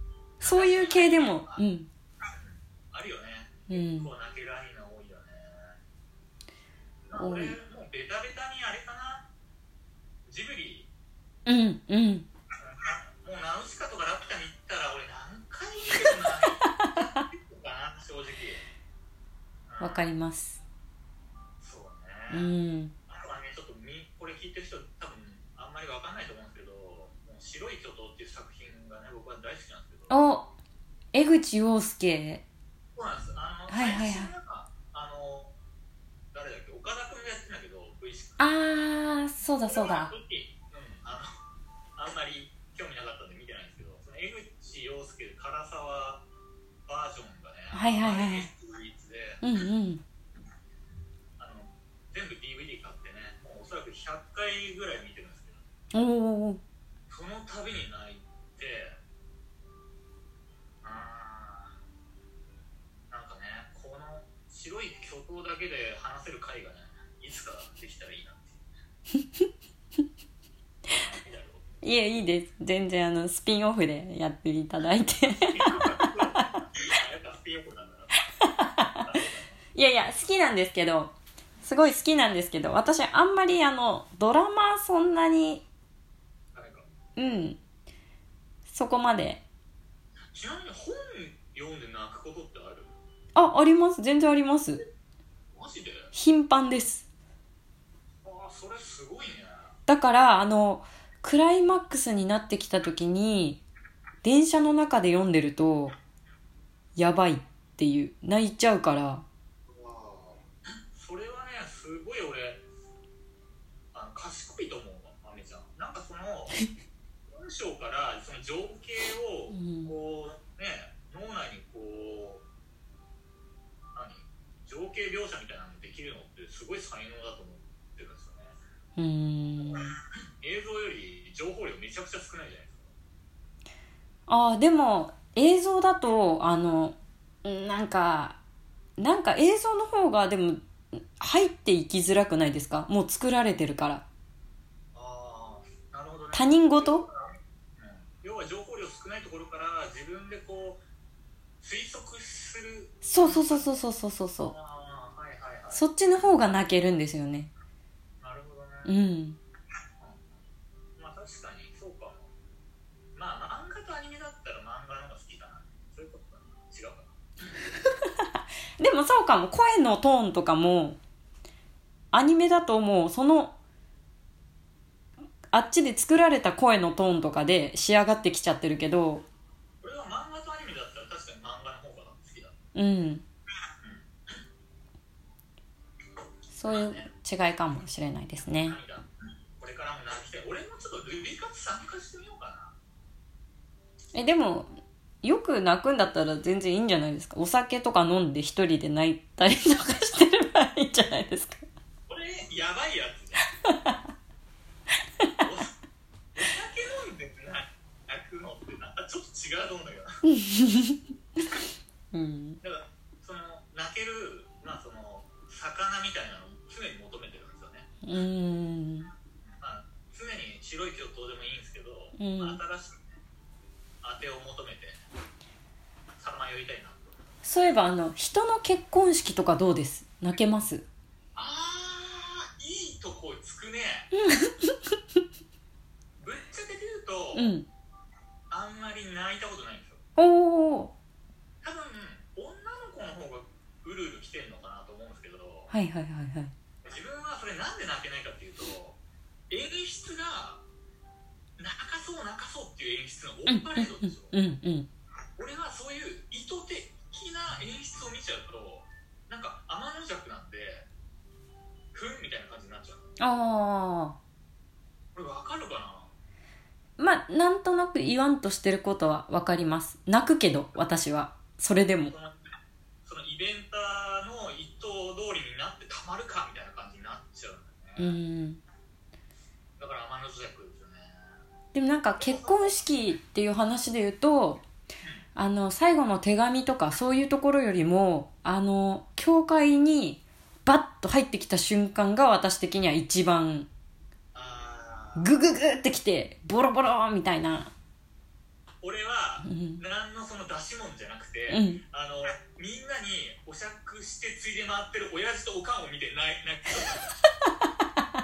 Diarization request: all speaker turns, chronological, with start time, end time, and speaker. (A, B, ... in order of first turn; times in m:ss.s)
0:00.4-0:01.6 A
0:00.4-0:01.9 B
0:02.3-0:05.8 A
0:03.7-0:04.1 B
0:07.1-0:09.3 A
0:07.2-0:07.6 B
0:10.3-0:10.9 A
0:11.5-0:12.3 B
0:12.6-0:18.6 A
0:19.7-0:20.1 A
0:19.8-0:20.6 B
0:21.6-0:22.5 A
0:22.3-0:22.9 B
0:23.1-0:30.2 A
0:30.1-0:30.5 B
0:31.1-0:32.4 B
0:33.0-0:35.5 A
0:33.7-0:34.3 B
0:36.3-0:38.4 A
0:38.4-0:40.1 B
0:39.6-0:41.3 A
0:42.0-0:46.2 A
0:46.9-0:49.4 A
0:47.7-0:48.5 B
0:49.4-0:50.0 B
0:51.4-0:55.6 A
0:55.9-0:56.6 B
0:57.1-0:59.0 A
1:00.8-1:01.8 A
1:03.1-1:08.6 A
1:10.9-1:11.7 A
1:11.8-1:16.5 B
1:15.5-1:18.2 A
1:18.6-1:19.0 B
1:19.0-1:19.6 A
1:19.8-1:25.6 B
1:26.5-1:26.9 A
1:27.2-1:27.6 B
1:28.7-1:29.4 B
1:30.3-1:32.9 A
1:33.4-1:34.8 B
1:35.5-1:36.1 A
1:36.1-1:37.0 B
1:38.2-1:39.8 A
1:39.9-1:43.6 B
1:44.2-1:46.0 B
1:47.0-1:49.2 B
1:49.7-1:52.6 A
1:53.9-1:56.6 A
1:57.3-2:02.4 A
1:59.5-2:00.0 B
2:04.0-2:08.6 A
2:09.0-2:09.9 B
2:09.6-2:09.9 A
2:10.4-2:12.9 A
2:14.3-2:18.4 B
2:19.0-2:24.0 B
2:24.9-2:30.8 A
2:26.3-2:27.0 B
2:31.6-2:33.8 A
2:33.0-2:34.5 B
2:34.4-2:35.8 A
2:35.7-2:37.5 B
2:38.2-2:39.0 A
2:38.8-2:39.4 B
2:40.0-2:40.5 A
2:41.0-2:42.3 A
2:43.2-2:47.1 A
2:48.8-2:51.0 B
2:52.1-2:53.6 B
2:55.5-2:59.2 B
2:59.8-3:02.6 A
3:02.8-3:03.2 B
3:06.5-3:08.8 B
3:06.7-3:07.1 A
3:08.4-3:12.8 A
3:14.1-3:14.7 B
3:15.2-3:21.6 B
3:22.1-3:23.5 A
3:23.7-3:24.0 B
3:25.4-3:25.7 A
3:26.4-3:30.1 A
3:30.3-3:31.0 B
3:32.1-3:32.6 B
3:32.6-3:37.9 A
3:38.0-3:39.1 B
3:39.5-3:43.2 A
3:42.2-3:42.6 B
3:44.0-3:45.0 A
3:46.2-3:47.0 A
3:47.4-3:50.8 B
3:51.4-3:54.1 A
3:54.1-3:54.8 B
3:56.2-3:57.5 A
3:57.3-3:57.7 B
3:58.5-4:00.0 A
4:00.2-4:00.9 B
4:01.6-4:05.7 A
4:05.7-4:06.5 B
4:06.8-4:09.0 A
4:09.5-4:10.6 A
4:11.6-4:14.4 A
4:13.5-4:14.9 B
4:15.4-4:20.9 A
4:21.9-4:23.1 A
4:23.2-4:24.2 B
4:25.2-4:26.1 A
4:27.0-4:32.1 B
4:32.1-4:32.4 A
4:33.0-4:38.2 A
4:38.0-4:38.6 B
4:39.8-4:41.2 A
4:41.7-4:44.6 B
4:42.2-4:42.9 A
4:45.4-4:53.7 B
4:54.3-4:55.3 A
4:55.2-4:57.7 B
4:58.8-5:07.0 A
4:59.4-4:59.8 B
5:01.5-5:01.8 B